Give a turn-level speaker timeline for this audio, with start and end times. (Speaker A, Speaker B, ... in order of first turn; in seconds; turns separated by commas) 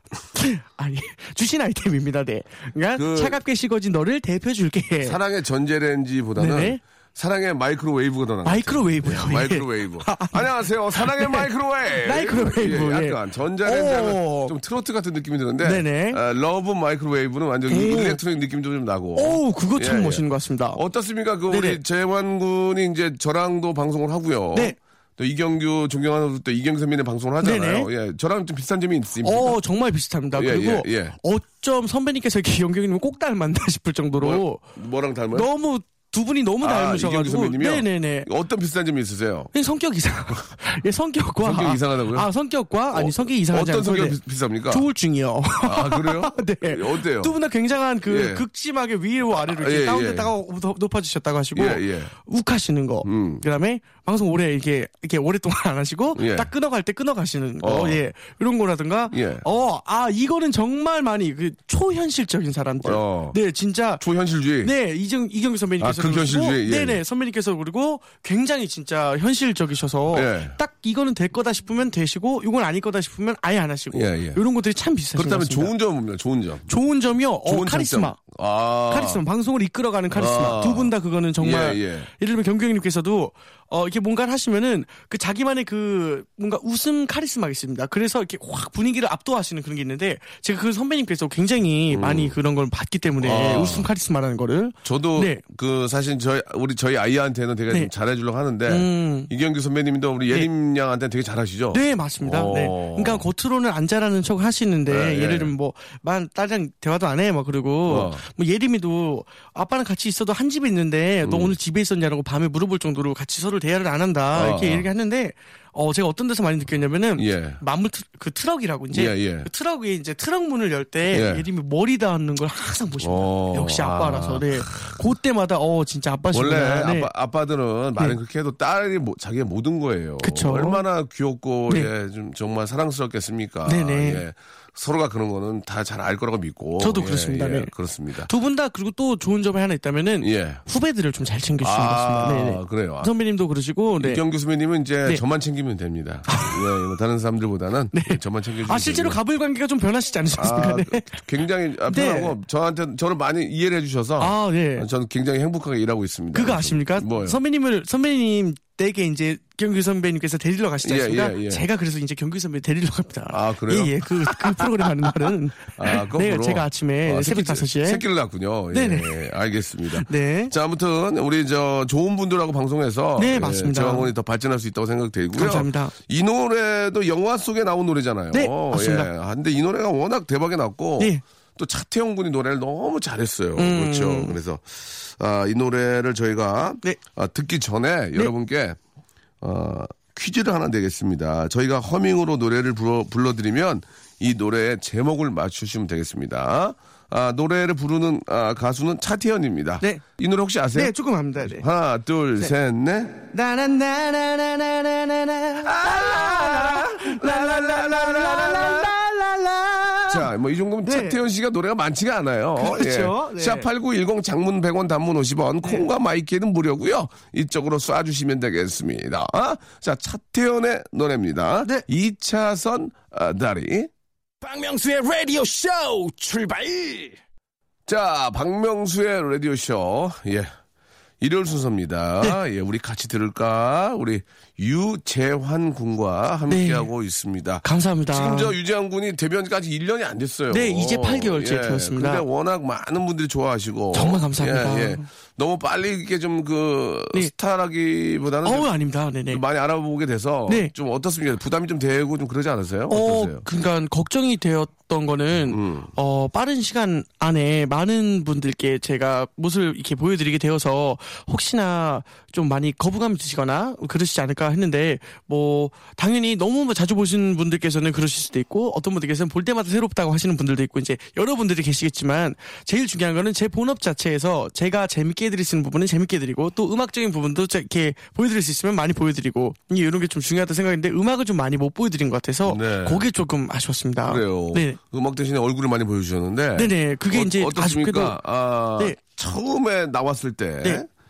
Speaker A: 0.3-5.2, Speaker B: 2.9-3.4, Speaker B: 5.0-29.6, Speaker A: 6.4-6.8, Speaker A: 8.4-14.5, Speaker A: 15.6-16.2, Speaker A: 17.7-18.2, Speaker A: 19.1-20.8, Speaker A: 21.5-21.8, Speaker A: 27.4-27.9, Speaker A: 29.2-34.6, Speaker B: 30.3-31.2, Speaker B: 34.2-35.5, Speaker A: 35.3-38.3, Speaker B: 36.6-39.5, Speaker A: 39.5-44.2, Speaker B: 41.4-42.3, Speaker B: 42.9-44.9, Speaker A: 44.7-64.0, Speaker B: 45.6-47.4, Speaker B: 48.0-48.5, Speaker B: 49.4-50.3, Speaker B: 51.5-52.1, Speaker B: 53.0-53.4, Speaker B: 56.1-56.5, Speaker B: 57.6-58.0, Speaker B: 59.1-59.4, Speaker B: 62.8-63.4, Speaker B: 64.0-64.7, Speaker A: 64.6-75.7, Speaker B: 65.8-67.0, Speaker B: 70.1-70.6, Speaker B: 73.9-74.4, Speaker B: 75.2-76.7, Speaker A: 76.7-78.2, Speaker B: 77.5-79.2, Speaker A: 78.9-95.4, Speaker B: 80.1-82.1, Speaker B: 91.9-92.3, Speaker B: 93.2-93.9, Speaker B: 94.8-103.3, Speaker A: 98.7-99.3, Speaker A: 101.7-127.1, Speaker B: 104.8-105.5, Speaker B: 107.9-108.2, Speaker B: 111.2-111.5, Speaker B: 114.3-114.9, Speaker B: 117.2-117.6, Speaker B: 118.9-119.5, Speaker B: 121.1-121.4, Speaker B: 123.0-125.0, Speaker B: 126.3-138.3, Speaker A: 130.2-130.8, Speaker A: 133.7-134.2, Speaker A: 136.8-137.7, Speaker A: 138.2-144.2, Speaker B: 140.2-140.6, Speaker B: 141.6-143.1, Speaker B: 144.0-149.2, Speaker A: 146.3-146.8, Speaker A: 147.9-151.2, Speaker B: 150.3-157.4, Speaker A: 151.9-152.3, Speaker A: 154.2-154.9, Speaker A: 156.3-168.0, Speaker B: 160.8-161.6, Speaker B: 163.3-188.8, Speaker A: 168.7-169.3, Speaker A: 169.9-170.5, Speaker A: 173.2-174.1, Speaker A: 175.3-175.9, Speaker A: 178.3-179.1, Speaker A: 183.6-184.3, Speaker B: 189.4-203.2, Speaker A: 200.7-201.6, Speaker A: 203.3-210.3, Speaker B: 205.6-208.9, Speaker B: 210.1-223.9, Speaker A: 210.8-211.2, Speaker A: 212.6-213.7, Speaker C: 224.4-227.2, Speaker B: 227.9-230.5, Speaker B: 231.2-248.7, Speaker A: 236.5-236.9, Speaker A: 237.6-238.5, Speaker A: 240.5-242.2, Speaker A: 243.9-245.0, Speaker A: 248.4-249.4, Speaker B: 249.3-253.4, Speaker A: 250.5-250.7, Speaker A: 252.9-284.8, Speaker B: 255.5-255.9, Speaker B: 282.4-283.0, Speaker B: 284.1-290.9, Speaker A: 286.6-288.2